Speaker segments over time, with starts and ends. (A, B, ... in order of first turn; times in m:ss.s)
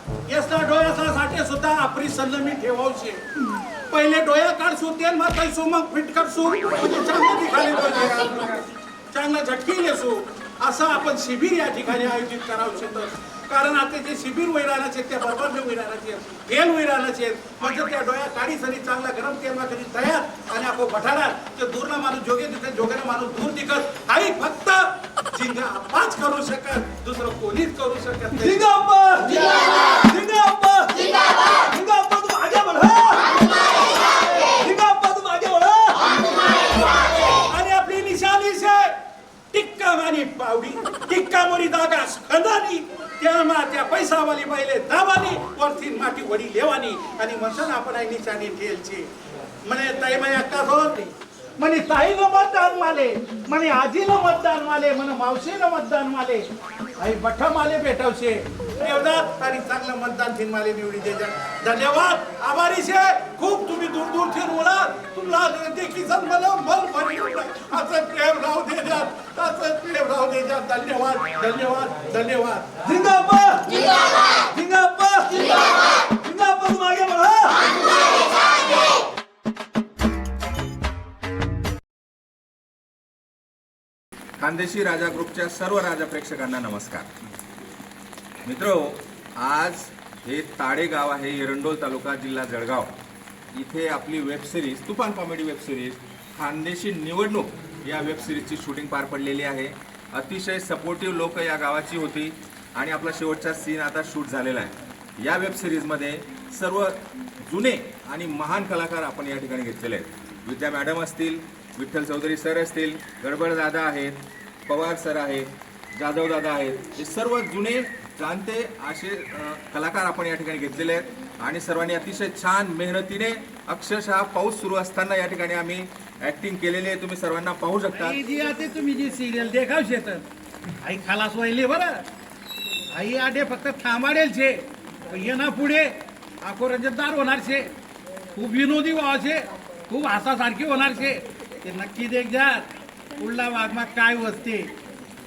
0:00.3-0:03.2 A
0:03.9-0:28.7 A
0:28.4-0:29.3 B
0:30.0-0:31.0 B
0:31.6-0:33.3 B
0:34.6-0:36.0 B
0:37.5-0:38.9 A
0:39.5-0:49.1 A
0:49.7-0:56.4 A
0:57.0-1:12.8 A
1:12.9-1:13.7 B
1:14.5-1:15.4 B
1:16.2-1:17.6 B
1:24.4-1:27.1 C
1:28.4-1:32.9 C
1:33.5-2:08.2 C
2:08.0-2:10.2 A
2:10.8-2:12.0 A
2:12.9-2:17.7 A
2:18.4-2:22.7 A
2:23.2-2:24.7 A